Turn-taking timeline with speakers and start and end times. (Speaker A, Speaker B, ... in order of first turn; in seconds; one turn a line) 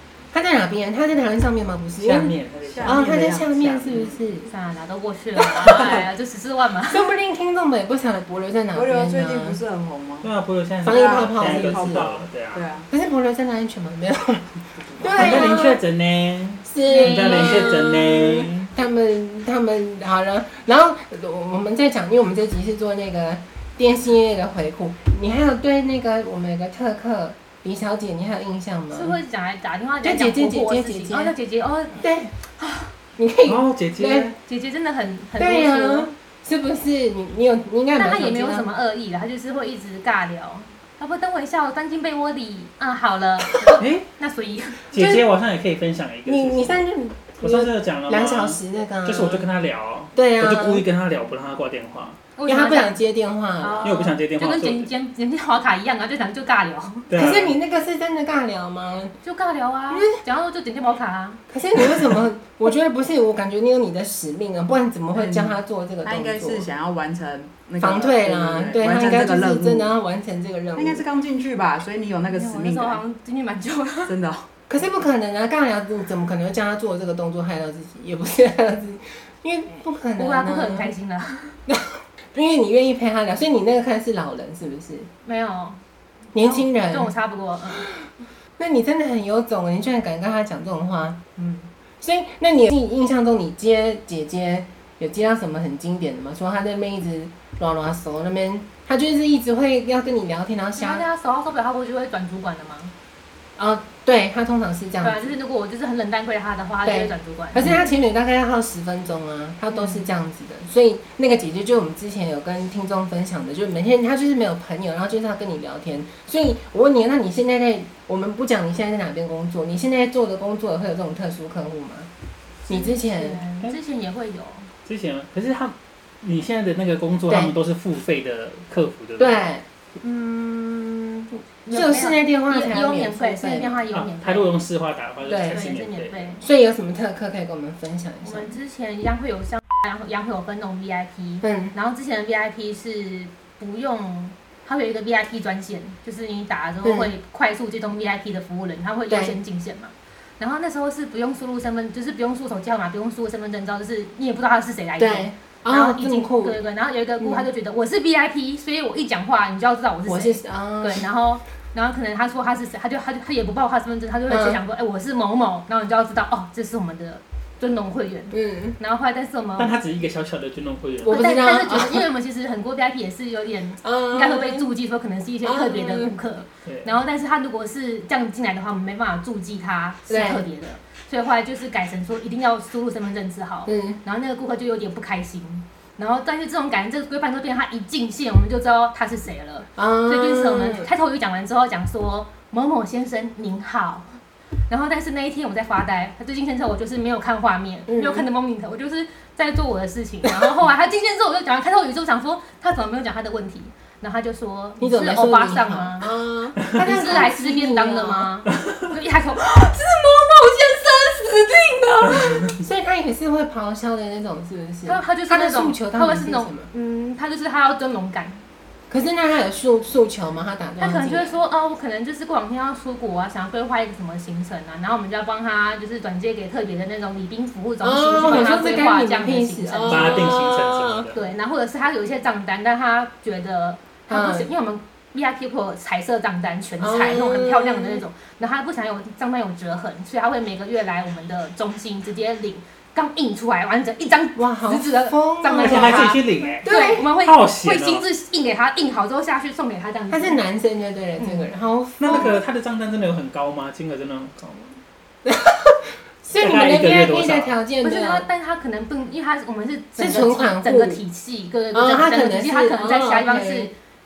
Speaker A: 0.3-4.5
Speaker B: 2.0-4.2
Speaker C: 2.7-3.9
Speaker D: 4.5-7.1
Speaker A: 5.4-6.0
Speaker C: 5.7-6.0
Speaker A: 6.9-9.6
Speaker C: 8.7-10.3
Speaker B: 10.2-12.7
Speaker A: 10.8-12.1
Speaker C: 10.8-12.9
Speaker A: 12.9-14.5
Speaker C: 14.8-15.4
Speaker A: 15.0-15.8
Speaker B: 15.2-18.7
Speaker A: 16.6-29.2
Speaker D: 16.8-17.8
Speaker D: 28.9-32.0
Speaker A: 30.0-31.3
Speaker A: 32.0-32.4
Speaker D: 32.6-32.9
Speaker A: 33.2-34.3
Speaker B: 33.5-34.3
Speaker D: 34.4-36.1
Speaker A: 35.4-38.7
Speaker D: 38.0-44.8
Speaker B: 43.8-44.0
Speaker B: 44.9-46.8
Speaker A: 44.9-45.2
Speaker A: 46.2-49.5
Speaker B: 47.4-52.2
Speaker A: 50.1-50.8
Speaker D: 52.4-53.0
Speaker A: 52.5-54.0
Speaker D: 53.6-57.1
Speaker B: 53.8-54.9
Speaker B: 57.1-57.6
Speaker A: 57.1-59.1
Speaker D: 59.2-61.4
Speaker A: 59.9-60.2
Speaker A: 61.5-66.7
Speaker C: 65.1-69.9
Speaker A: 67.8-71.0
Speaker C: 70.8-73.0
Speaker D: 72.3-74.1
Speaker C: 74.0-74.5
Speaker A: 74.7-80.9
Speaker D: 80.2-81.5
Speaker A: 81.7-85.1
Speaker D: 85.2-85.8
Speaker A: 86.3-87.1
Speaker D: 86.4-87.9
Speaker A: 87.8-88.0
Speaker A: 88.6-91.2
Speaker A: 92.0-101.0
Speaker D: 100.8-102.9
Speaker A: 103.6-105.3
Speaker D: 105.0-107.8
Speaker A: 106.8-122.1
Speaker D: 109.7-110.0
Speaker A: 122.7-123.4
Speaker D: 122.7-124.7
Speaker B: 124.8-129.5
Speaker A: 127.3-127.5
Speaker A: 129.2-133.8
Speaker D: 131.7-134.6
Speaker B: 133.9-136.3
Speaker A: 135.3-135.6
Speaker D: 135.5-136.4
Speaker A: 136.4-138.6
Speaker D: 138.2-169.7
Speaker A: 141.4-141.7
Speaker A: 146.8-147.1
Speaker A: 149.1-149.4
Speaker A: 155.0-156.6
Speaker A: 157.2-157.5
Speaker A: 160.1-161.1
Speaker A: 164.3-164.6
Speaker A: 168.3-168.8
Speaker B: 169.6-171.2
Speaker A: 171.0-172.1
Speaker D: 171.0-206.1
Speaker A: 173.8-174.7
Speaker A: 175.4-176.2
Speaker B: 176.6-176.9
Speaker A: 180.1-180.4
Speaker A: 183.7-184.0
Speaker A: 189.8-190.9
Speaker A: 197.9-198.3
Speaker A: 204.8-208.3
Speaker D: 206.7-212.5
Speaker A: 212.5-216.7
Speaker D: 214.8-218.4
Speaker A: 218.9-221.3
Speaker D: 220.8-230.3
Speaker A: 227.8-231.1
Speaker B: 228.2-228.6
Speaker B: 229.9-231.2
Speaker D: 231.1-250.4
Speaker A: 234.1-234.5
Speaker A: 236.8-238.0
Speaker A: 244.3-247.1
Speaker B: 245.6-248.0
Speaker A: 250.1-252.4
Speaker D: 251.2-251.5
Speaker B: 252.0-254.8
Speaker A: 255.2-258.2
Speaker B: 256.4-257.5
Speaker D: 257.8-263.7
Speaker A: 260.0-261.0
Speaker A: 261.7-263.7